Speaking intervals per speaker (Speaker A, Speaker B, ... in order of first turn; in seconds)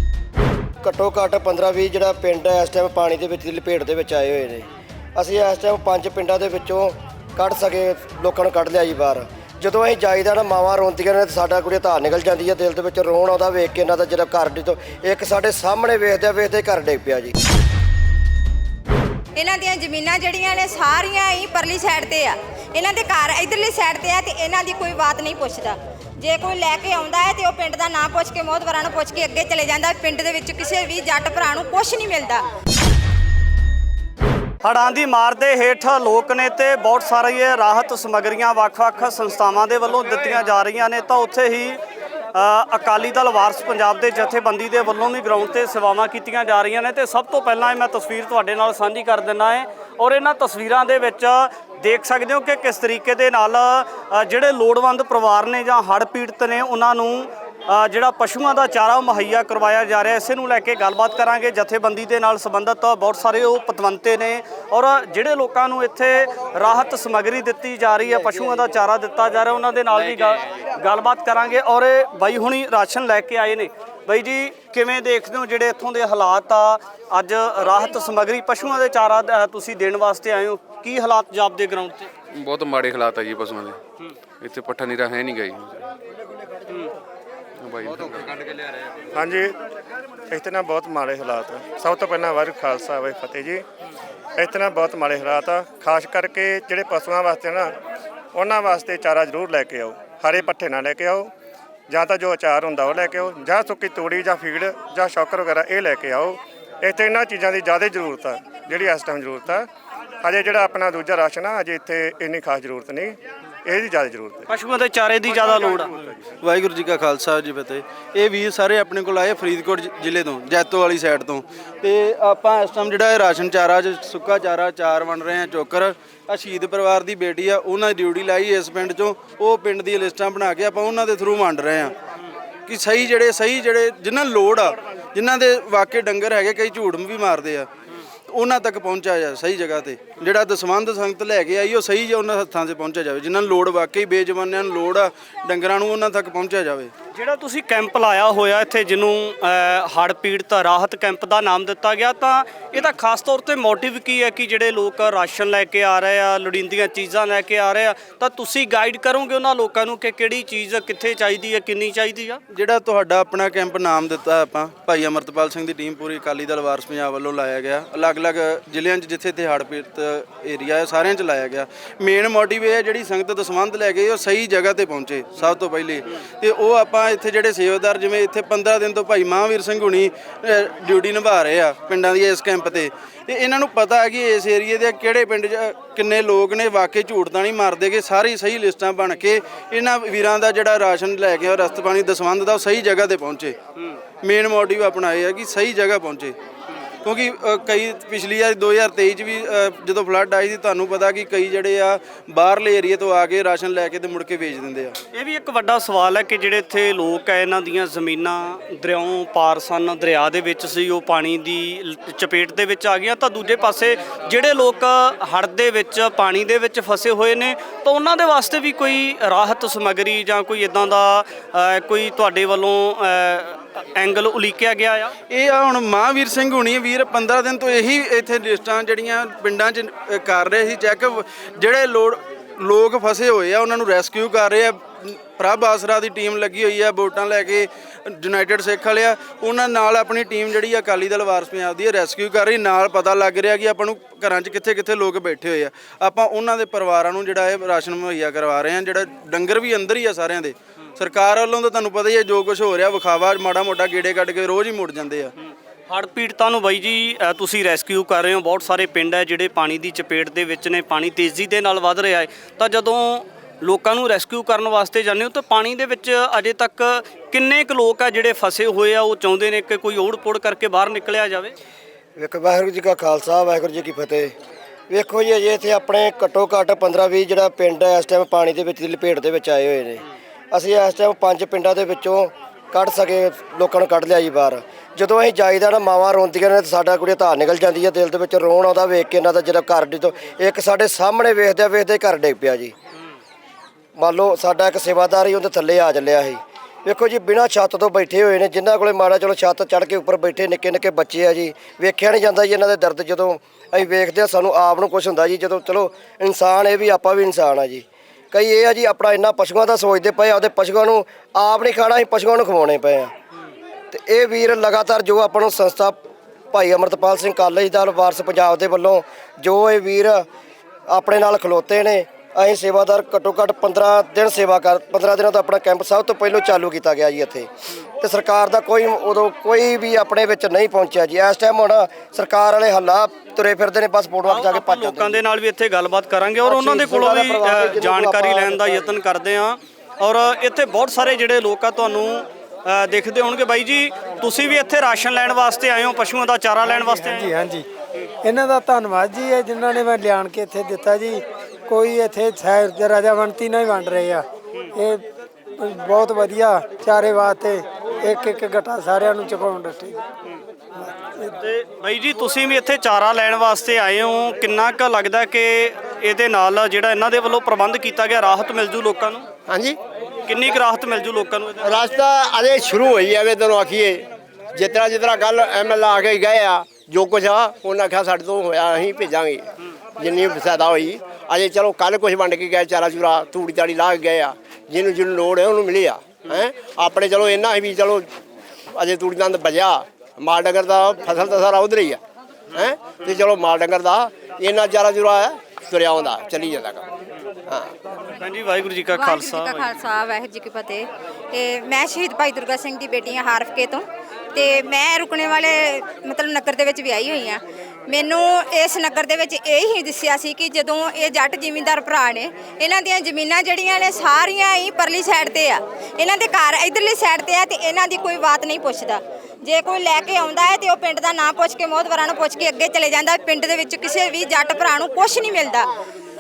Speaker A: 0.8-17.3, 272.2-274.3, 274.9-292.7, 294.0-313.1, 313.9-316.0, 316.5-320.3, 320.9-327.5, 328.0-335.2, 336.4-338.7
Speaker B: 19.4-32.5, 398.9-425.7
Speaker C: 34.6-41.8, 42.4-82.1, 114.5-116.0, 147.1-162.4, 205.1-225.1, 255.9-271.5, 334.3-347.4, 361.4-369.3, 370.3-371.8, 398.2-399.7
Speaker D: 82.3-83.8, 84.4-85.8, 87.7-88.4
Speaker E: 89.1-89.5, 90.3-93.6, 94.4-97.7, 98.3-101.3, 101.9-109.7, 110.2-114.5
Speaker F: 116.4-131.9, 132.7-137.7, 138.3-146.9, 162.5-193.6, 194.2-196.3, 197.0-205.0, 225.3-255.3
Speaker G: 346.8-347.7, 348.2-355.1, 355.6-360.0
Speaker H: 369.5-369.8, 371.6-388.1, 388.7-392.0, 392.5-396.9